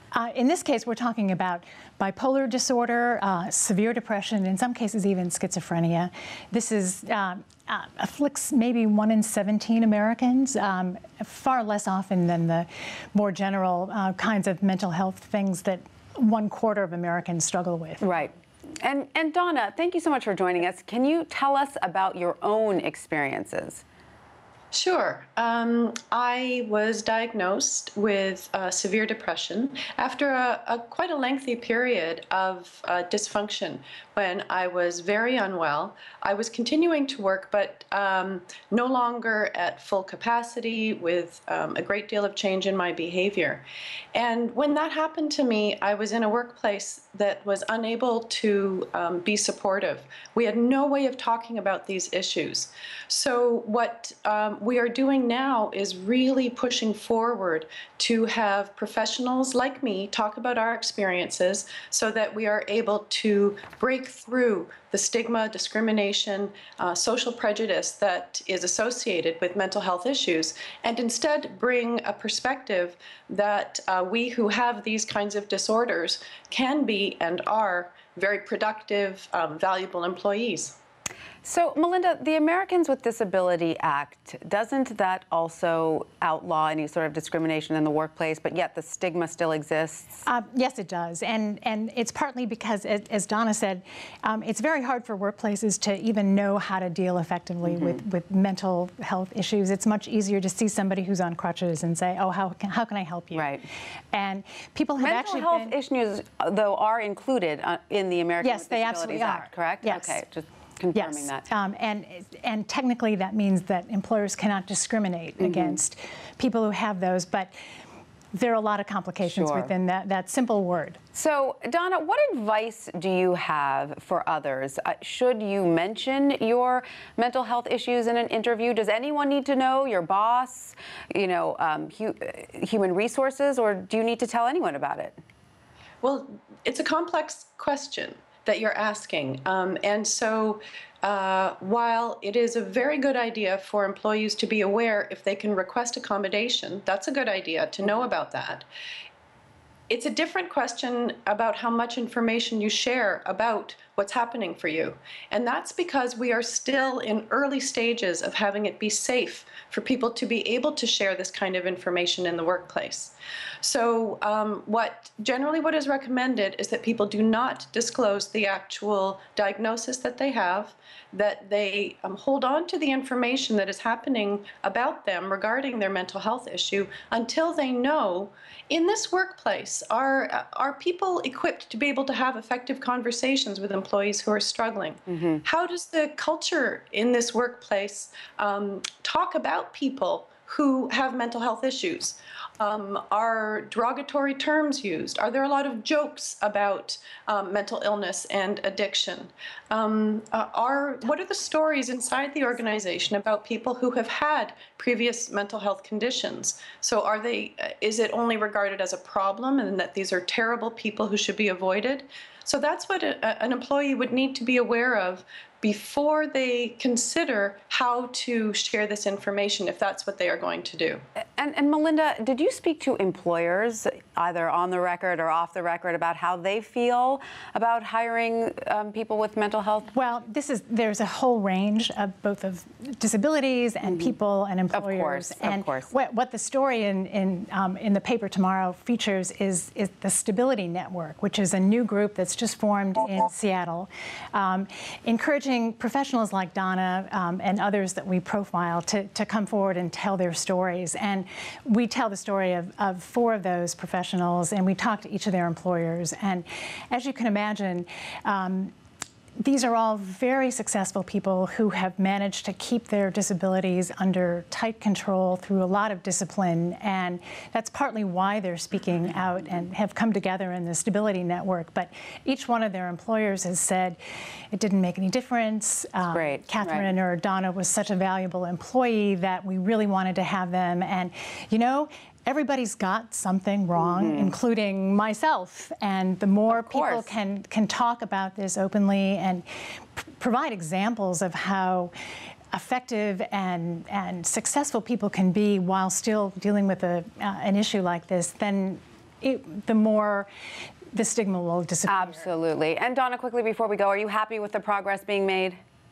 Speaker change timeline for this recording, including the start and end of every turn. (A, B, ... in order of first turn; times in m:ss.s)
0:00.1-0:18.0 A
0:18.0-0:23.8 B
0:24.7-1:20.8 C
1:21.4-1:30.2 B
1:30.2-1:43.6 A
1:37.6-1:38.0 B
1:43.3-1:43.6 B
1:44.1-1:45.7 A
1:45.0-1:51.4 B
1:48.4-1:50.2 A
1:50.9-1:57.5 A
1:55.4-1:55.8 B
1:58.3-2:01.0 A
1:59.2-1:59.7 B
2:01.1-2:15.2 B
2:16.0-2:28.6 C
2:29.9-3:41.0 C
3:41.4-3:49.9 B
3:49.9-4:18.7 A
3:54.7-3:55.9 B
4:19.4-4:34.0 A
4:34.5-4:49.4 A
4:36.1-4:36.9 B
4:43.8-4:44.3 B
4:46.5-4:47.1 B
4:50.0-4:51.9 A
4:52.5-5:00.3 A
5:00.9-5:02.3 A
5:01.9-5:05.6 B